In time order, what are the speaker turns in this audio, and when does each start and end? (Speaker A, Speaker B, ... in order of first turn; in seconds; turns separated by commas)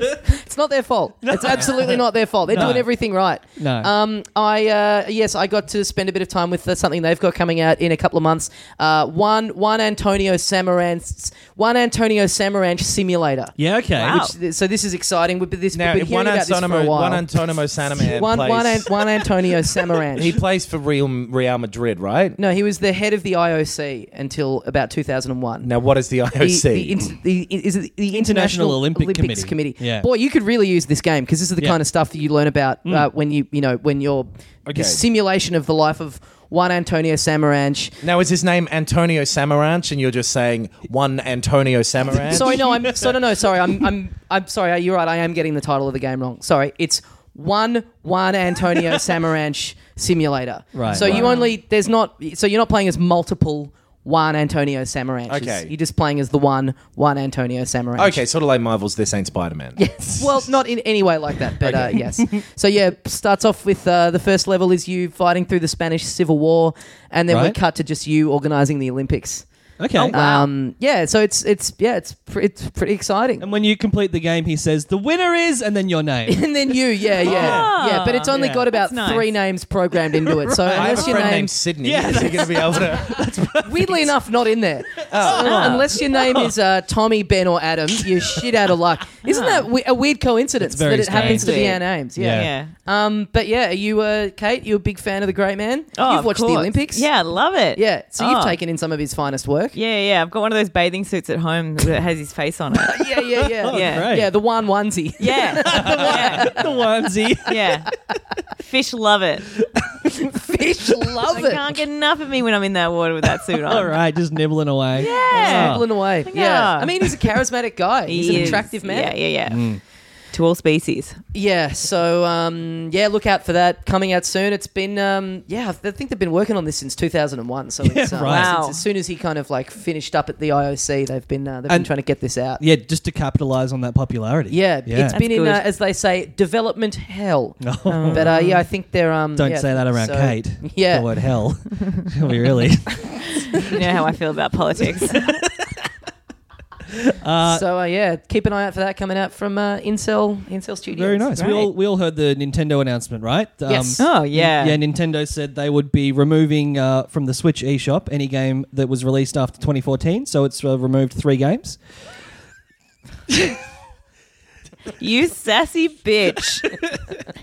Speaker A: 0.2-17.3, Speaker B: 1.3-2.9, Speaker B: 3.6-3.9, Speaker B: 13.6-14.2, Speaker C: 14.0-14.3, Speaker D: 15.7-19.3, Speaker A: 18.0-20.4, Speaker D: 20.0-22.4, Speaker A: 22.4-25.7, Speaker D: 25.6-27.0, Speaker A: 26.3-38.0, Speaker B: 28.1-30.1, Speaker D: 34.6-35.0, Speaker D: 38.0-42.6, Speaker A: 42.3-58.2, Speaker B: 42.5-43.1, Speaker B: 50.7-51.2, Speaker D: 50.9-51.3, Speaker C: 51.0-51.5, Speaker D: 55.3-55.7, Speaker D: 58.0-60.2, Speaker A: 59.8-69.5, Speaker B: 61.6-62.4, Speaker B: 67.3-67.6, Speaker B: 69.8-70.4, Speaker C: 70.0-70.4, Speaker A: 70.0-73.5, Speaker B: 73.4-76.5, Speaker A: 76.3-81.5, Speaker B: 77.2-78.7, Speaker C: 77.2-79.3, Speaker B: 80.2-84.1, Speaker D: 80.7-83.3, Speaker A: 83.6-97.1, Speaker B: 85.0-86.5, Speaker D: 85.1-85.6, Speaker C: 85.3-85.9, Speaker B: 88.0-88.5, Speaker C: 89.2-89.7, Speaker B: 90.6-92.5, Speaker C: 91.1-92.7, Speaker C: 96.0-98.6, Speaker A: 97.7-99.8, Speaker C: 99.7-103.1, Speaker A: 102.9-106.8, Speaker B: 103.3-104.3, Speaker C: 103.7-104.1, Speaker C: 105.2-106.5, Speaker B: 105.6-107.8, Speaker C: 107.5-107.9, Speaker C: 108.6-109.5, Speaker B: 109.6-110.3, Speaker A: 110.1-111.6, Speaker C: 111.3-114.0, Speaker B: 113.6-115.9, Speaker C: 115.0-117.1, Speaker A: 115.0-119.2, Speaker C: 118.1-119.7, Speaker B: 118.3-118.6, Speaker B: 119.5-119.8, Speaker C: 120.3-121.2, Speaker A: 121.3-132.6, Speaker B: 127.8-128.6, Speaker C: 128.2-128.8, Speaker B: 131.7-131.9, Speaker B: 132.6-135.2, Speaker A: 134.5-141.1, Speaker C: 135.1-135.6, Speaker B: 137.6-138.3, Speaker C: 137.9-138.6, Speaker B: 139.3-143.8, Speaker C: 143.6-145.4, Speaker B: 145.1-145.7, Speaker B: 146.9-147.6, Speaker A: 147.4-151.3, Speaker B: 150.9-161.8, Speaker C: 151.3-151.7, Speaker A: 153.7-154.0, Speaker C: 154.0-154.8, Speaker C: 165.0-166.7, Speaker B: 166.7-167.0